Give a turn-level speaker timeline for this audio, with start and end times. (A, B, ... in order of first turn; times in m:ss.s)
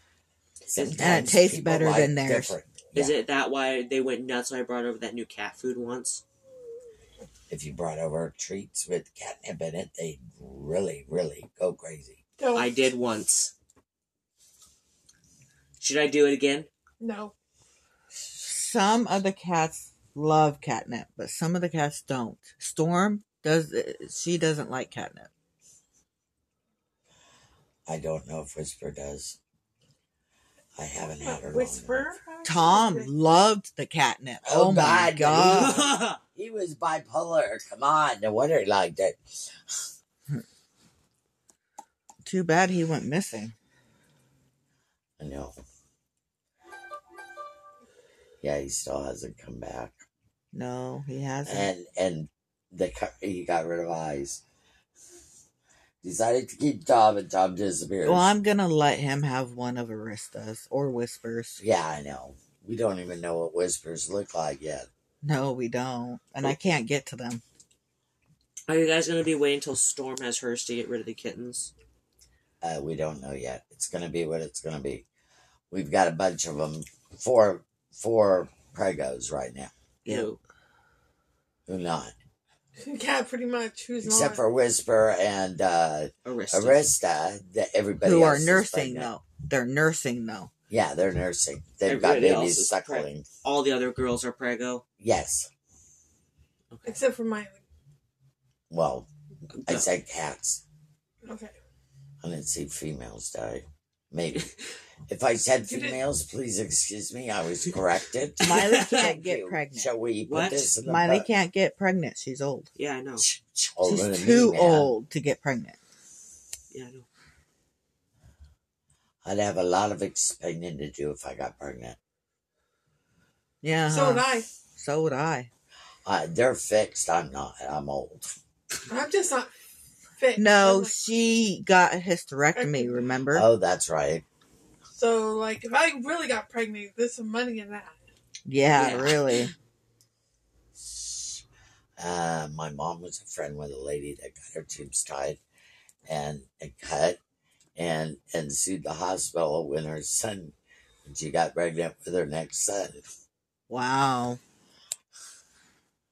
0:00.7-0:03.2 A
0:00.9-0:02.5 B
0:02.9-0:06.2 C
0:07.5-0:12.2 A
0:12.4-0:12.7 D
0:12.5-0:13.5 C
0:15.8-0:16.7 C
0:17.0-0:17.3 D
0:18.3-0:25.3 B
0:27.8-0:29.4 A
0:30.8-0:32.1 A
0:31.2-0:33.1 D
0:32.4-0:35.8 B
0:34.4-0:39.5 A
0:35.3-0:36.2 C
0:42.2-0:43.5 B
0:45.2-0:45.6 A
0:48.4-0:50.0 A
0:50.5-0:51.7 B
0:51.4-0:54.4 A
0:56.0-0:58.3 A
0:58.0-1:01.6 B
1:01.6-1:04.9 A
1:05.2-1:07.4 B
1:08.7-1:11.7 C
1:12.6-1:15.0 A
1:15.7-1:19.7 A
1:20.1-1:20.4 C
1:21.7-1:22.1 A
1:22.8-1:24.4 D
1:24.0-1:29.1 A
1:26.2-1:26.9 C
1:28.0-1:30.5 B
1:30.7-1:33.3 A
1:31.8-1:34.8 C
1:35.0-1:35.5 A
1:36.7-1:37.0 C
1:36.8-1:37.6 D
1:38.7-1:39.1 A
1:39.5-1:39.9 C
1:39.7-1:40.6 A
1:41.2-1:41.5 D
1:42.2-1:44.5 A
1:45.1-1:51.3 A
1:45.6-1:46.0 D
1:48.4-1:49.1 C
1:48.4-1:49.9 B
1:50.2-1:50.7 C
1:50.8-1:52.7 B
1:52.8-1:53.2 C
1:53.2-1:54.9 A
1:53.8-1:55.8 B
1:56.7-1:57.1 C
1:59.2-2:02.0 A
2:03.6-2:05.5 B
2:03.9-2:04.5 D
2:06.0-2:08.3 A
2:08.9-2:09.5 D
2:10.2-2:10.9 D
2:10.4-2:13.5 B
2:12.6-2:13.0 D
2:13.3-2:14.2 A
2:14.9-2:18.0 D
2:18.4-2:19.5 B
2:18.8-2:19.4 C
2:20.8-2:21.4 A
2:22.0-2:25.4 A
2:26.1-2:27.2 A
2:27.8-2:30.5 A
2:31.0-2:33.1 A
2:33.7-2:34.4 B